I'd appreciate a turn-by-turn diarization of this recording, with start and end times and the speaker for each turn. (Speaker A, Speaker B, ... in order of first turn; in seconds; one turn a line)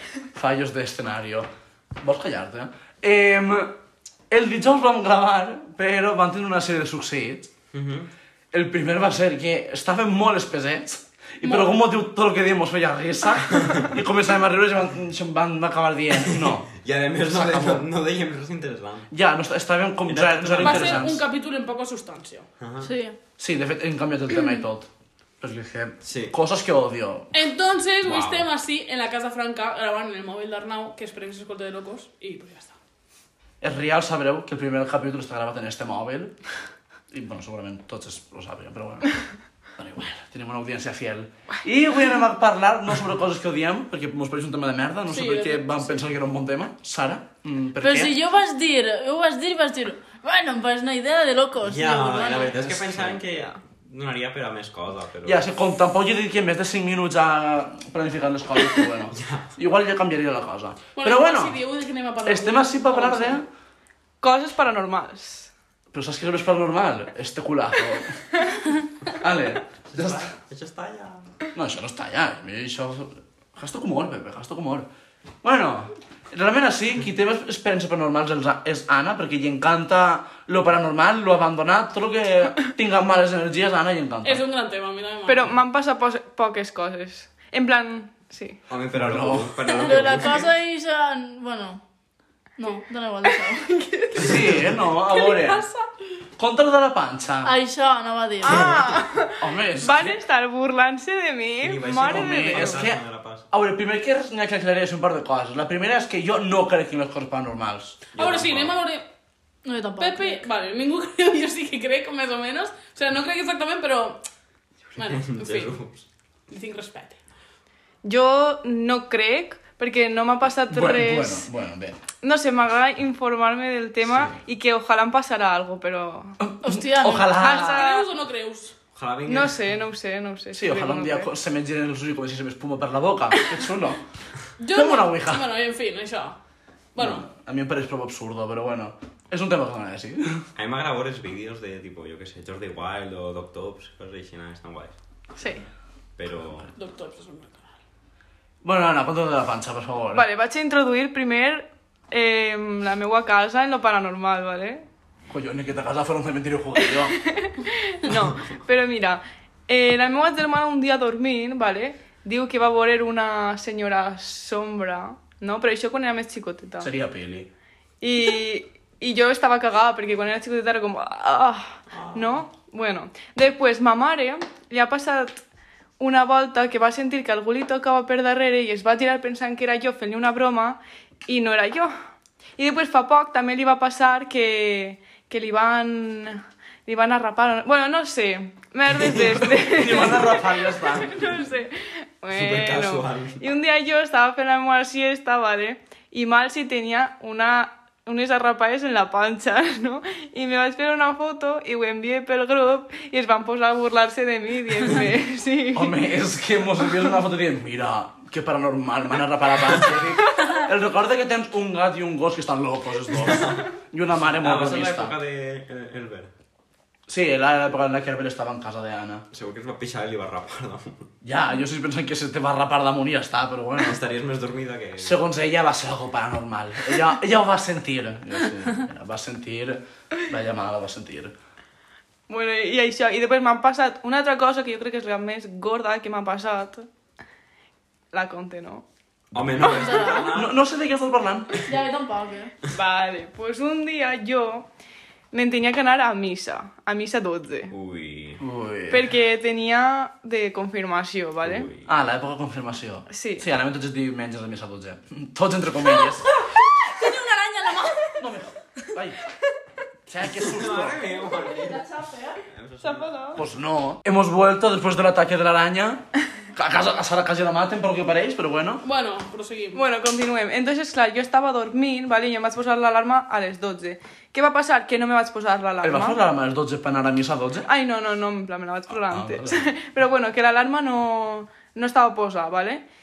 Speaker A: 0.3-1.5
Speaker A: 2.0-3.8
Speaker A: 4.3-7.5
Speaker B: 7.7-8.1
Speaker A: 8.5-17.9
Speaker C: 11.4-11.7
Speaker B: 13.6-13.9
Speaker B: 16.2-19.1
Speaker A: 19.1-21.2
Speaker B: 20.0-21.2
Speaker C: 20.5-22.5
Speaker B: 22.6-22.9
Speaker D: 22.8-23.2
Speaker A: 23.4-24.9
Speaker A: 25.4-27.3
Speaker B: 26.0-26.4
Speaker C: 27.3-32.8
Speaker B: 28.0-28.5
Speaker A: 33.6-36.3
Speaker A: 37.1-39.2
Speaker A: 39.8-48.2
Speaker C: 45.1-46.1
Speaker D: 47.8-52.6
Speaker B: 51.6-55.4
Speaker A: 52.6-53.2
Speaker A: 55.2-61.6
Speaker B: 59.1-59.5
Speaker C: 60.9-63.5
Speaker A: 62.2-63.4
Speaker E: 64.2-65.5
Speaker A: 65.9-68.2
Speaker A: 69.1-70.3
Speaker B: 69.9-71.3
Speaker A: 71.5-74.9
Speaker A: 75.4-84.4
Speaker C: 84.2-85.5
Speaker E: 85.2-88.6
Speaker B: 88.7-90.5
Speaker A: 88.9-89.5
Speaker D: 89.7-91.8
Speaker D: 92.6-93.9
Speaker A: 94.2-95.6
Speaker B: 94.3-94.6
Speaker C: 95.1-95.9
Speaker A: 96.4-97.5
Speaker D: 97.4-98.8
Speaker E: 98.4-102.9
Speaker B: 98.5-99.1
Speaker A: 99.4-100.2
Speaker B: 101.6-103.5
Speaker A: 102.0-108.0
Speaker B: 108.1-108.8
Speaker C: 108.2-109.1
Speaker D: 109.7-110.5
Speaker C: 110.0-114.2
Speaker B: 114.9-116.1
Speaker C: 115.0-115.8
Speaker C: 116.5-117.2
Speaker E: 118.0-121.5
Speaker A: 120.7-122.0
Speaker E: 122.2-126.4
Speaker B: 124.1-124.3
Speaker A: 126.4-127.8
Speaker D: 126.6-127.4
Speaker E: 127.4-128.1
Speaker C: 127.5-128.8
Speaker B: 128.9-129.6
Speaker E: 129.2-131.3
Speaker A: 130.5-134.0
Speaker C: 134.6-136.4
Speaker A: 134.7-135.5
Speaker C: 136.9-137.2
Speaker A: 137.0-140.4
Speaker B: 140.6-145.0
Speaker E: 145.3-145.7
Speaker B: 146.2-146.7
Speaker C: 146.8-147.8
Speaker A: 148.6-150.2
Speaker E: 150.1-154.8
Speaker A: 155.3-157.2
Speaker E: 157.0-166.9
Speaker A: 166.8-167.5
Speaker E: 168.0-175.4
Speaker B: 171.9-172.4
Speaker E: 176.0-181.9
Speaker E: 182.6-206.0
Speaker B: 189.0-189.5
Speaker A: 189.6-191.2
Speaker B: 192.3-193.4
Speaker A: 205.7-215.2
Speaker B: 213.1-213.7
Speaker B: 214.3-216.3
Speaker A: 217.1-219.2
Speaker B: 219.3-221.1
Speaker A: 221.2-224.0
Speaker B: 223.8-225.2
Speaker A: 225.0-231.3
Speaker E: 232.3-236.9
Speaker E: 238.1-238.8
Speaker B: 239.3-240.6
Speaker E: 239.6-240.3
Speaker D: 239.6-240.3
Speaker A: 240.3-241.6
Speaker D: 241.6-242.5
Speaker E: 242.7-244.7
Speaker E: 245.3-247.8
Speaker B: 247.7-248.4
Speaker A: 248.4-249.1
Speaker E: 248.9-251.7
Speaker B: 251.4-251.9
Speaker A: 251.9-256.3
Speaker E: 253.1-253.4
Speaker C: 256.9-257.9
Speaker A: 258.2-259.2
Speaker A: 260.1-261.1
Speaker B: 260.4-263.2
Speaker D: 261.2-262.4
Speaker E: 262.8-263.4
Speaker A: 263.4-268.8
Speaker C: 268.8-269.8
Speaker E: 269.7-276.2
Speaker A: 275.8-277.7
Speaker E: 277.6-282.8
Speaker A: 279.1-279.7